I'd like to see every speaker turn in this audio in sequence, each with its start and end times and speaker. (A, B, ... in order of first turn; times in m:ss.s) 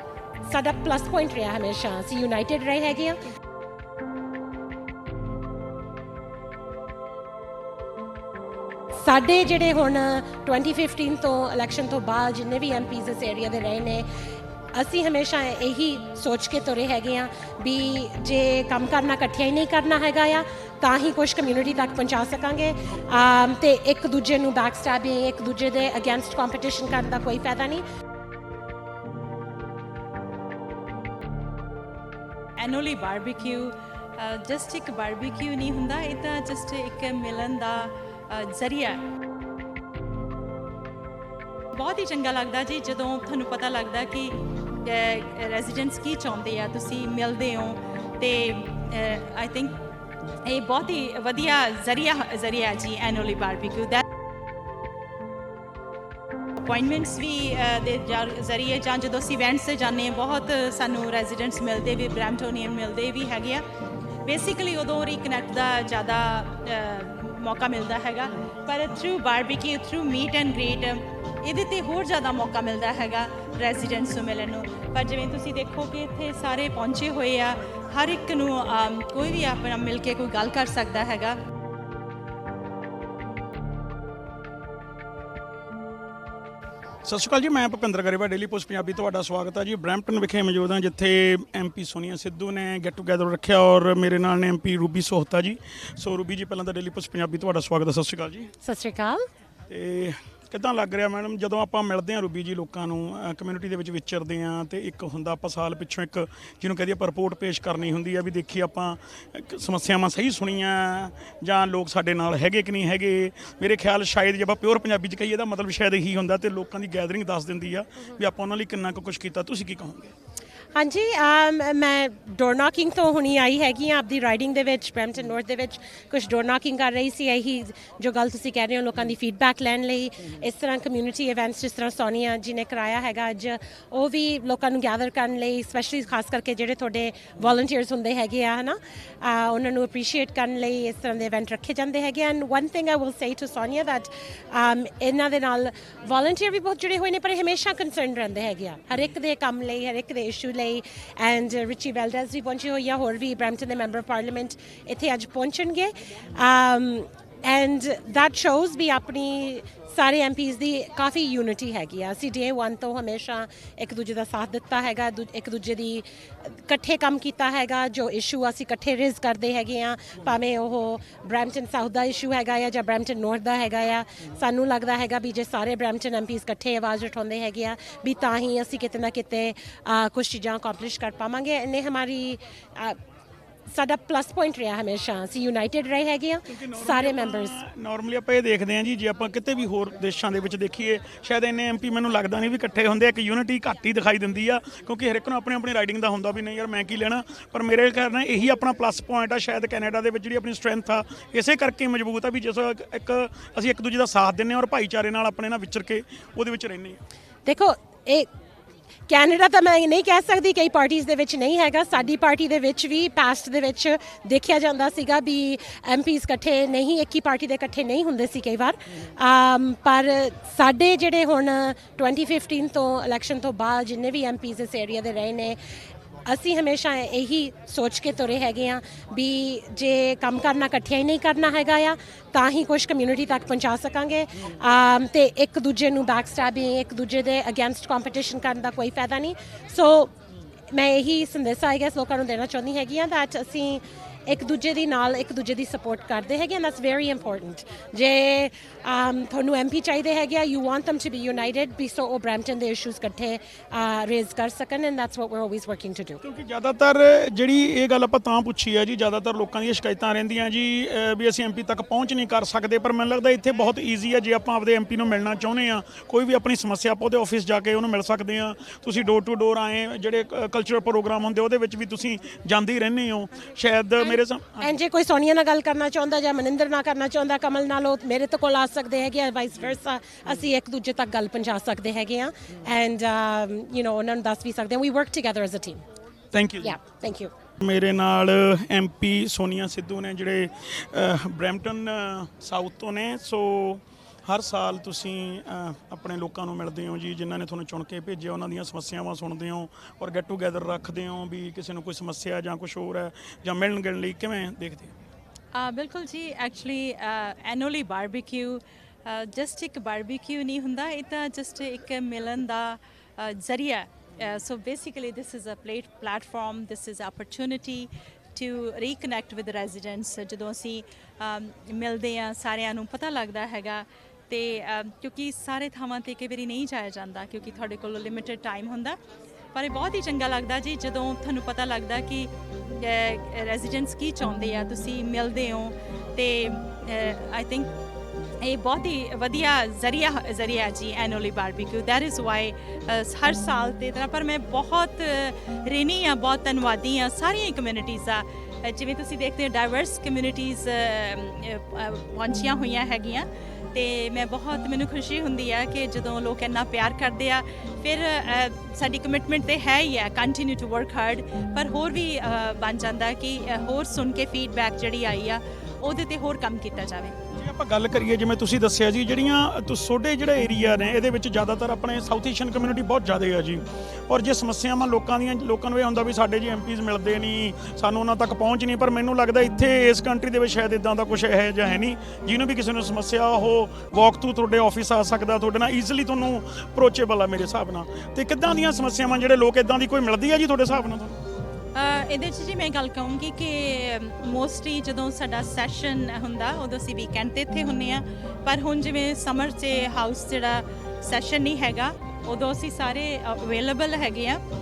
0:00.4-0:03.2 A
0:09.0-0:14.0 A
0:14.7-0:27.8 A
0:32.6-0:39.0 B
0:41.7-0:49.8 B
0:50.4-0:54.0 B
0:56.6-1:03.6 B
1:04.2-1:21.4 B
1:27.0-1:38.5 C
1:38.6-1:39.3 A
1:39.7-2:00.1 C
2:00.7-3:03.0 A
3:03.7-3:07.6 A
3:06.5-3:27.0 C
3:27.4-3:28.3 A
3:29.1-3:45.6 A
3:46.2-4:00.1 A
4:00.7-4:16.2 A
4:16.2-4:34.7 C
4:34.6-4:45.8 A
4:46.3-4:46.8 C
4:46.6-4:47.3 A
4:47.6-5:04.9 C
5:05.5-5:29.0 B
5:29.5-5:37.7 B
5:38.4-6:07.2 B
6:07.3-6:31.2 C
6:31.7-6:44.4 B